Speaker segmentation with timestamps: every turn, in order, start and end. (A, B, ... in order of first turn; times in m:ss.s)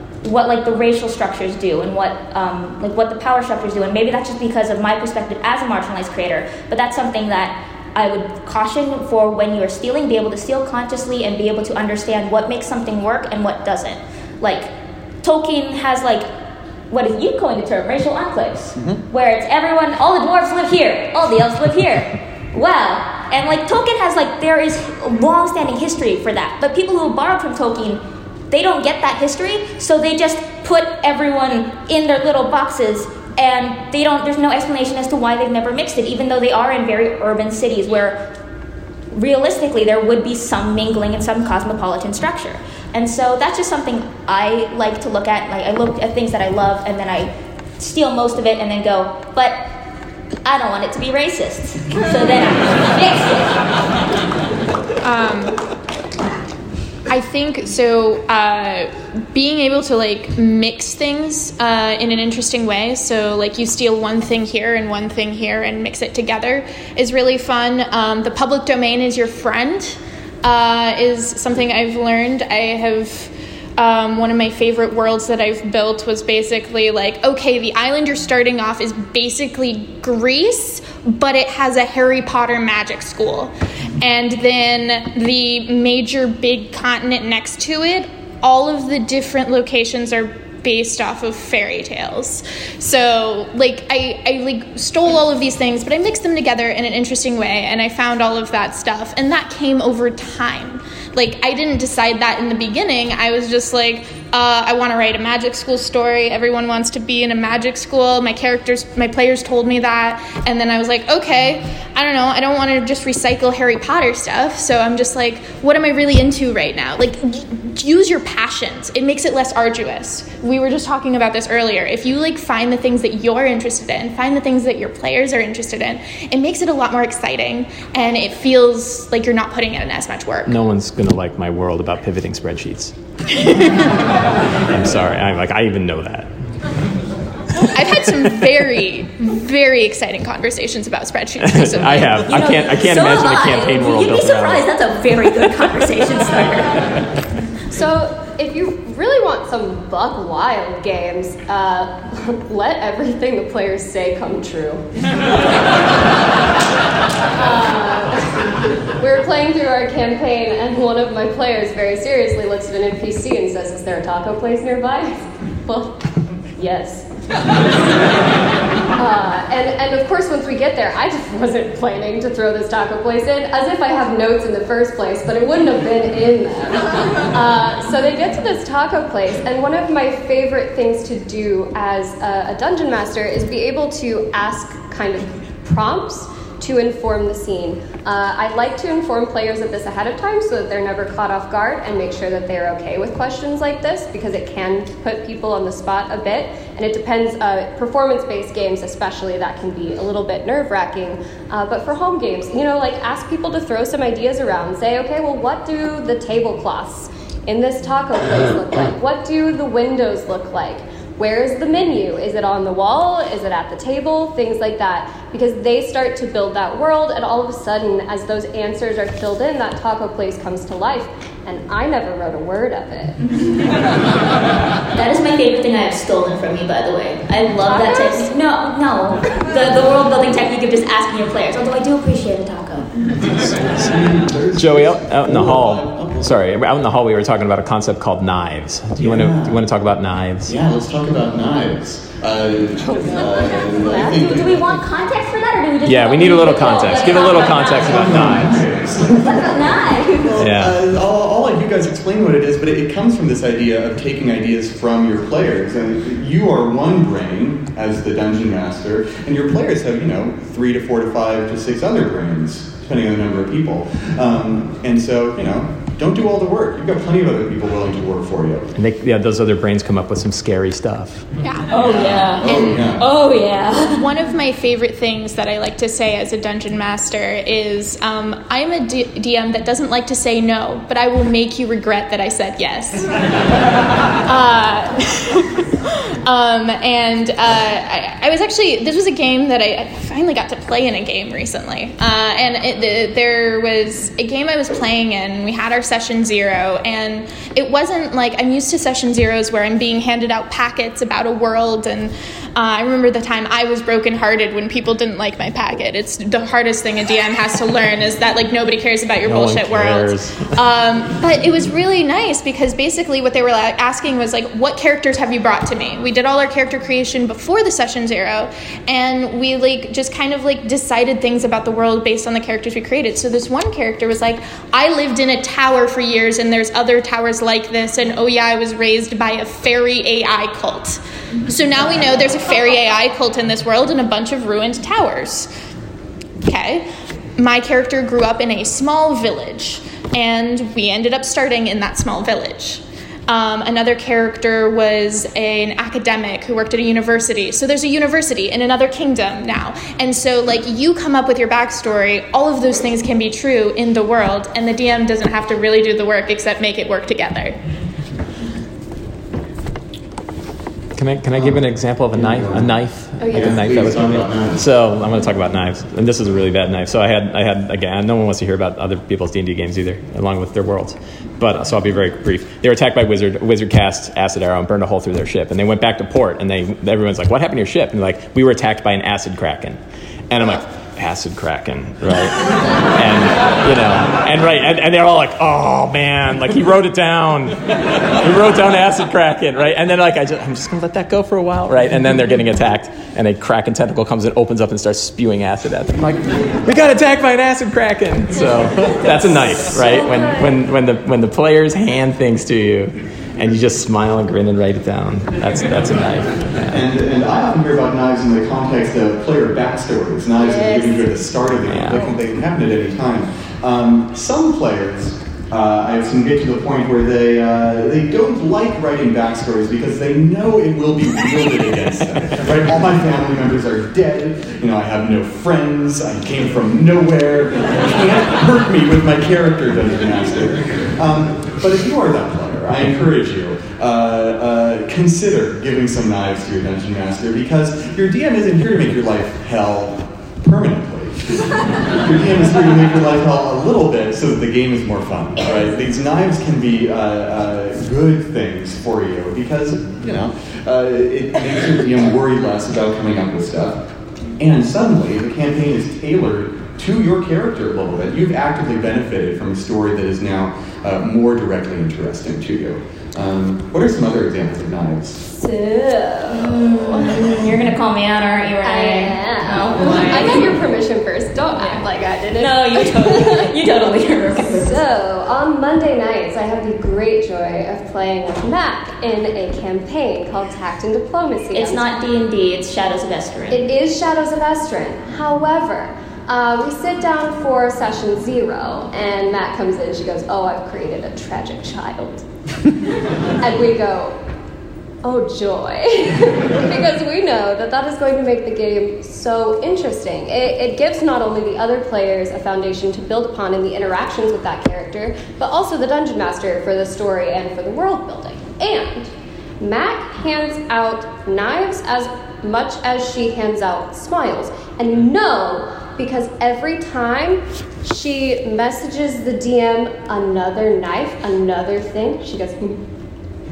0:00.2-0:14.7 A
0:15.2-0:16.3 A
0:16.9-0:38.2 A
0:39.1-0:49.8 A
0:50.4-0:53.6 A
0:55.0-0:55.6 B
0:57.1-2:10.6 B
2:10.4-2:14.0 C
2:14.7-2:16.3 C
2:17.6-2:22.5 B
2:21.4-2:24.7 C
2:22.3-2:26.8 A
2:27.7-2:34.8 D
2:37.3-2:46.0 D
2:46.6-2:47.0 D
2:48.9-3:43.2 D
3:44.9-3:52.9 A
3:47.6-3:48.3 D
3:53.4-3:53.9 C
3:53.8-3:56.4 E
3:54.5-4:00.5 C
3:59.0-3:59.6 E
4:00.5-4:04.8 E
4:03.8-4:08.4 A
4:05.8-4:08.6 C
4:07.8-4:09.7 E
4:09.1-4:10.4 A
4:10.2-4:28.7 E
4:10.4-4:10.8 C
4:28.8-4:31.3 C
4:31.4-4:32.9 B
4:31.7-4:34.0 A
4:31.8-4:33.0 E
4:33.9-4:43.2 B
4:44.2-4:45.5 B
4:46.2-5:35.5 B
5:09.2-5:10.5 C
5:36.4-5:57.6 B
6:00.9-6:19.8 C
6:01.3-6:01.6 E
6:02.1-6:04.6 E
6:03.2-6:03.6 D
6:20.3-6:46.8 C
6:46.7-7:33.8 E
6:50.4-6:51.4 D
6:51.7-6:52.0 C
7:34.4-7:45.2 E
7:45.3-7:47.1 D
7:46.3-7:50.5 A
7:48.6-7:53.4 D
7:51.6-7:54.8 A
7:54.4-8:01.8 D
8:01.5-8:03.7 A
8:03.5-8:12.2 D
8:13.4-8:14.2 D
8:15.0-8:42.8 D